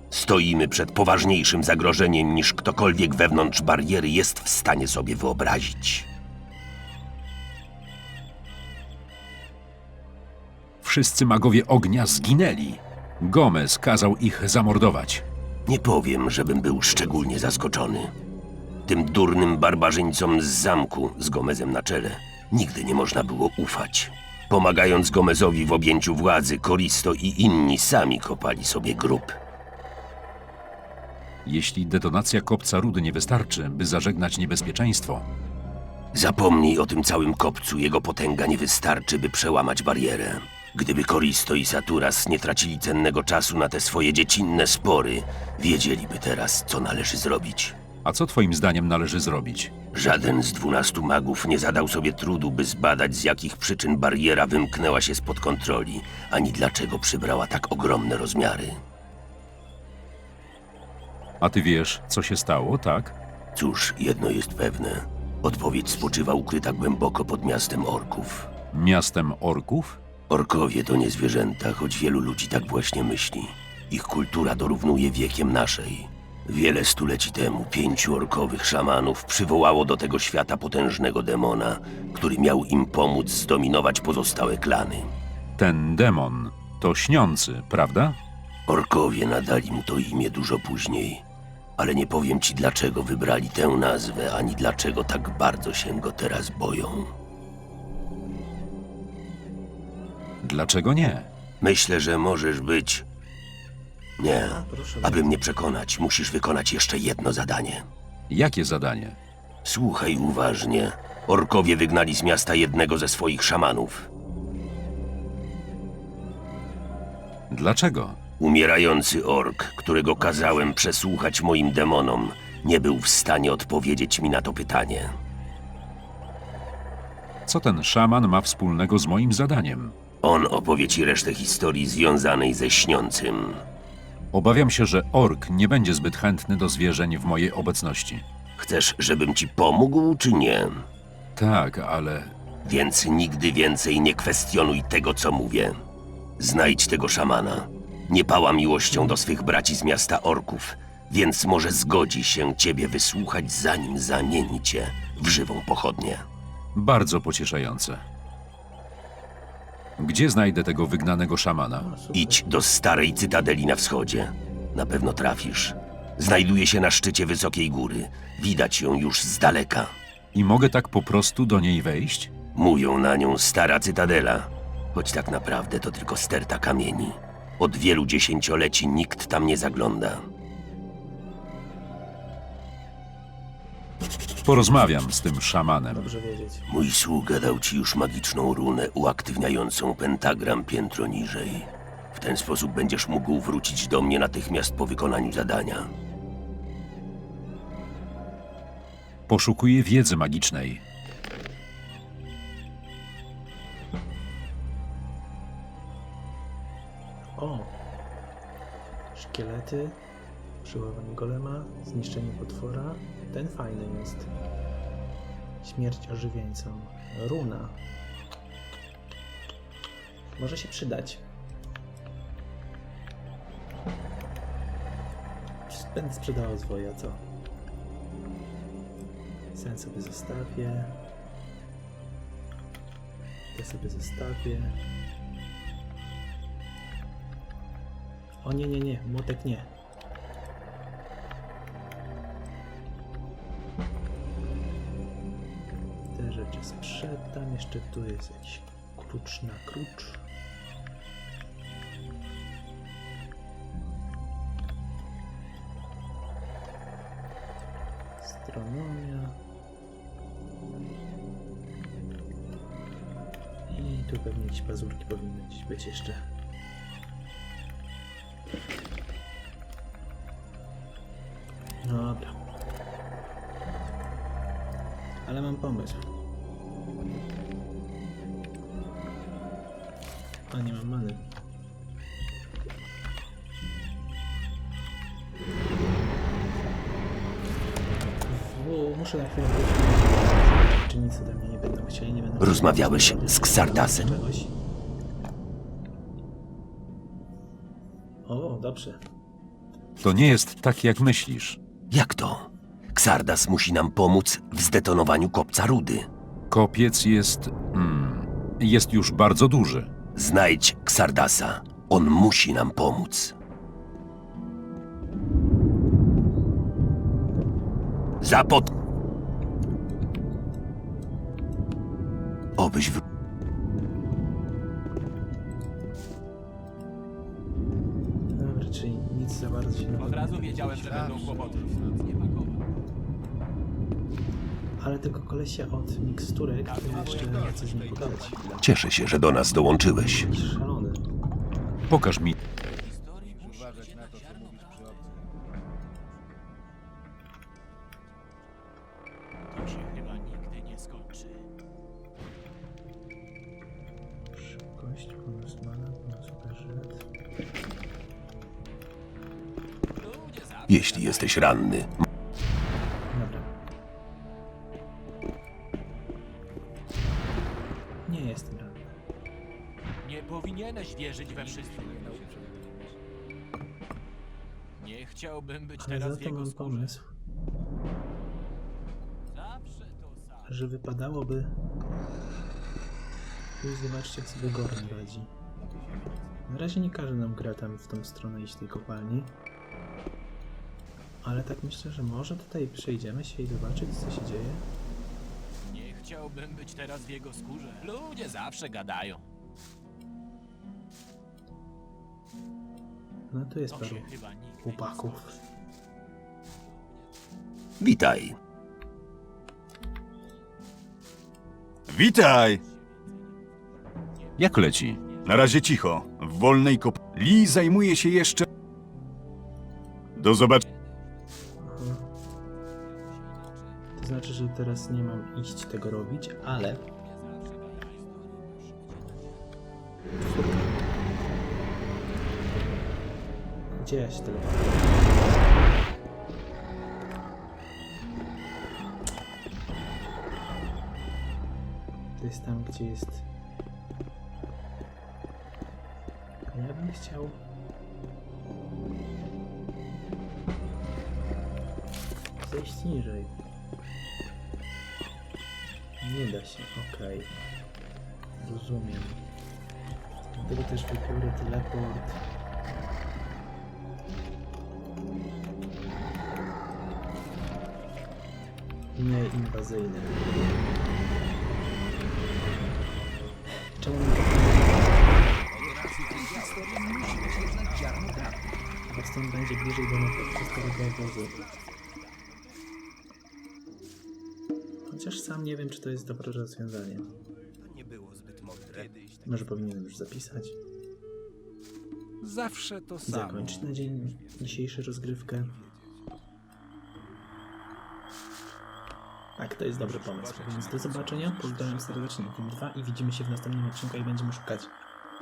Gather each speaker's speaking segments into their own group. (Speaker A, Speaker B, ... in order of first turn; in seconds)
Speaker A: 0.1-6.1, 15.7-18.1, 18.9-29.4, 36.1-47.8, 49.9-58.8, 63.5-68.5, 70.3-85.1, 88.7-91.2, 91.8-97.1, 101.6-103.0, 104.2-107.9, 109.7-114.1, 118.4-125.2, 130.2-133.7, 138.6-140.9, 142.6-145.8, 146.4-156.2, 162.1-169.9, 172.6-180.3, 186.7-195.9, 292.4-294.2, 301.9-306.1, 310.1-313.4, 318.2-318.7, 322.6-323.0, 338.6-340.3, 360.7-362.0, 407.8-408.4
Speaker B: 10.8-15.3, 31.4-35.3, 48.0-49.8, 61.4-63.2, 68.7-70.0, 85.6-88.2, 100.4-101.3, 108.3-109.2, 117.5-118.2, 127.5-129.9, 134.3-138.2, 141.4-142.4, 156.8-158.1, 160.0-161.9, 170.3-172.3, 184.4-186.1, 199.3-200.8, 300.0-301.6, 306.5-309.9, 341.9-342.4, 414.4-415.0
Speaker C: 104.3-105.4, 148.9-149.2, 161.8-162.6, 185.9-186.7, 207.4-207.8, 209.1-210.0, 210.6-214.3, 215.6-217.8, 220.3-221.2, 225.7-227.3, 229.6-231.0, 233.5-234.8, 238.4-239.7, 246.1-250.2, 258.2-259.4, 263.7-266.3, 271.8-272.4, 275.2-276.1, 280.5-281.3, 288.3-294.6, 298.2-299.0, 328.4-331.6, 334.8-338.7, 339.9-341.1, 354.3-357.1, 363.1-363.5, 368.1-368.9, 375.8-377.1, 380.5-381.6, 383.6-385.3, 386.5-389.4, 391.2-394.7, 403.3-405.4, 421.6-422.1, 424.0-426.9, 430.2-430.7, 433.7-435.4, 442.2-443.3, 446.5-447.4, 452.4-453.4, 456.0-457.4, 458.4-459.2, 460.4-462.2, 468.9-470.2, 473.6-475.0, 478.9-481.4, 484.9-487.1, 489.2-490.6, 493.1-495.6, 499.4-504.7
Speaker D: 329.9-332.6, 336.7-338.4, 342.6-345.3, 349.5-351.5, 359.9-361.7, 370.0-372.4, 374.8-377.0, 379.3-380.5, 384.4-384.9, 395.7-399.2, 403.7-405.5, 412.6-413.4, 414.1-415.7, 420.6-421.2, 422.9-423.8, 426.9-429.3, 475.5-478.4, 480.4-482.4, 493.2-493.5
Speaker E: 330.6-332.2, 336.9-338.7, 343.2-345.4, 371.2-373.0, 385.6-386.5, 428.6-429.0, 475.5-478.4, 481.4-481.8, 487.4-489.9, 492.2-496.1, 499.8-502.4
Speaker F: 411.9-412.6, 415.2-418.5, 420.2-420.6